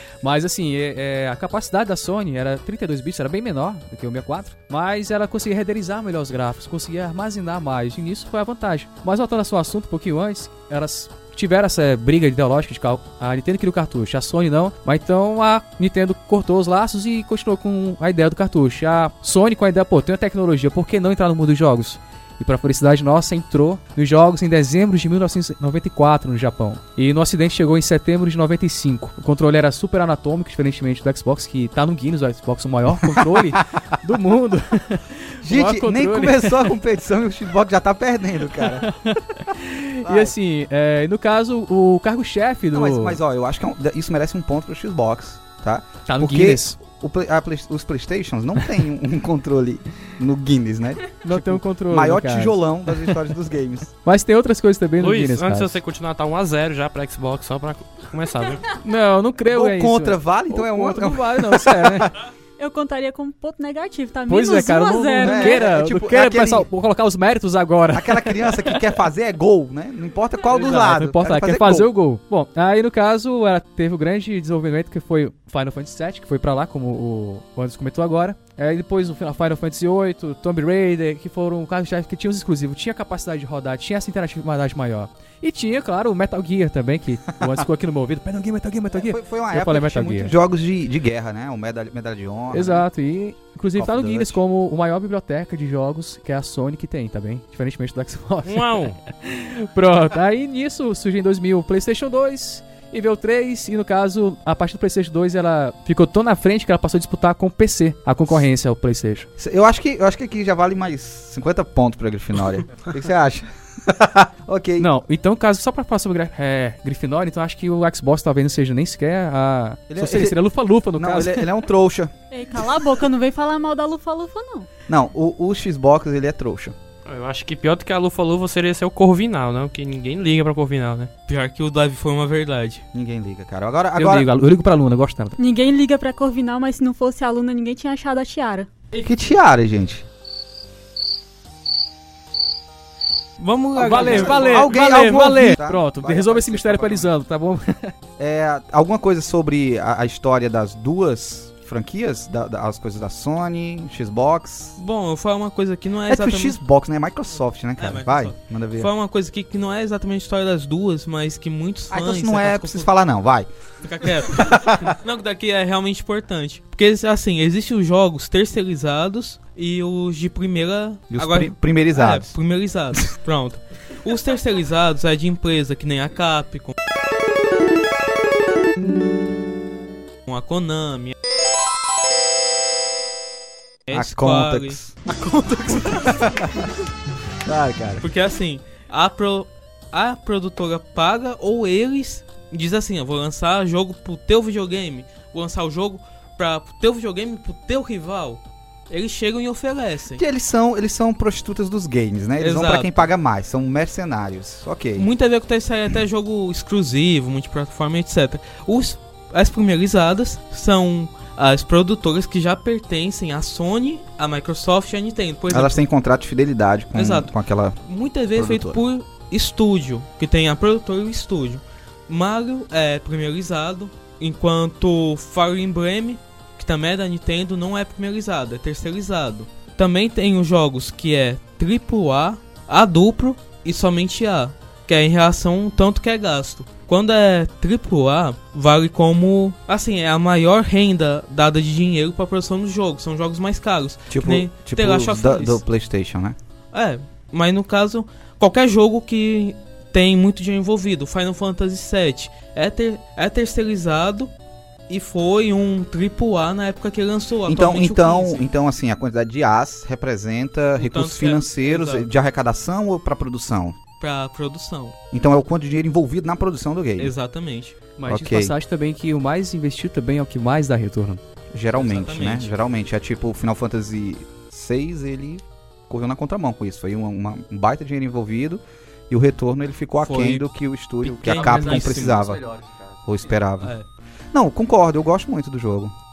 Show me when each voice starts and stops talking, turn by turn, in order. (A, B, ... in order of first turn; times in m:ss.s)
0:00.2-0:36.7 A
0:33.0-0:33.6 B
0:35.4-0:38.8 B
0:38.7-0:43.2 A
0:40.0-0:40.3 B
0:42.7-0:53.9 B
0:46.1-0:46.8 A
0:51.2-0:52.6 A
0:54.0-0:55.8 A
0:55.0-0:58.6 C
0:58.8-1:02.1 A
0:59.5-1:02.1 B
1:02.6-1:05.6 D
1:04.3-1:08.8 A
1:05.2-1:06.7 B
1:07.9-1:11.9 B
1:10.5-1:30.3 A
1:28.9-1:32.8 B
1:32.5-1:49.3 A
1:33.8-1:34.4 B
1:38.4-1:39.0 C
1:49.4-1:54.9 B
1:54.8-2:01.5 A
1:59.9-2:00.4 B
2:00.9-2:02.1 B
2:02.3-2:04.7 D
2:04.9-2:06.7 B
2:07.0-2:11.1 C
2:11.3-2:12.8 E
2:12.9-2:14.3 B
2:14.0-2:15.4 A
2:15.4-2:18.7 D
2:19.0-2:20.0 B
2:23.4-2:24.7 E
2:23.8-2:27.1 B
2:23.8-2:27.9 A
2:28.2-2:34.8 B
2:34.8-2:36.6 E
2:36.1-2:38.9 B
2:37.8-2:42.9 E
2:41.9-2:43.5 B
2:43.8-2:56.7 E
2:44.0-2:44.9 B
2:51.1-2:52.3 B
3:00.3-3:01.1 E
3:03.9-3:06.2 E
3:03.9-3:05.0 B
3:05.7-3:06.7 B
3:07.4-3:08.1 B
3:08.0-3:20.2 E
3:20.1-3:25.1 B
3:22.4-3:23.1 E
3:25.0-3:35.8 E
3:35.5-3:37.8 B
3:36.9-3:37.3 E
3:37.8-4:05.6 E
3:38.4-3:38.8 B
4:04.1-4:06.4 B
4:06.7-4:14.3 E
4:14.9-4:18.4 E
4:17.5-4:23.8 B
4:20.8-4:22.1 E
4:24.0-4:25.0 E
4:25.1-4:27.1 B
4:27.0-4:27.8 E
4:28.0-4:31.2 A
4:28.1-4:28.5 B
4:31.5-4:42.4 B
4:31.7-4:32.5 E
4:40.0-4:40.5 E
4:41.0-4:42.4 E
4:43.0-4:43.7 B
4:43.6-4:43.8 E
4:44.3-4:45.9 B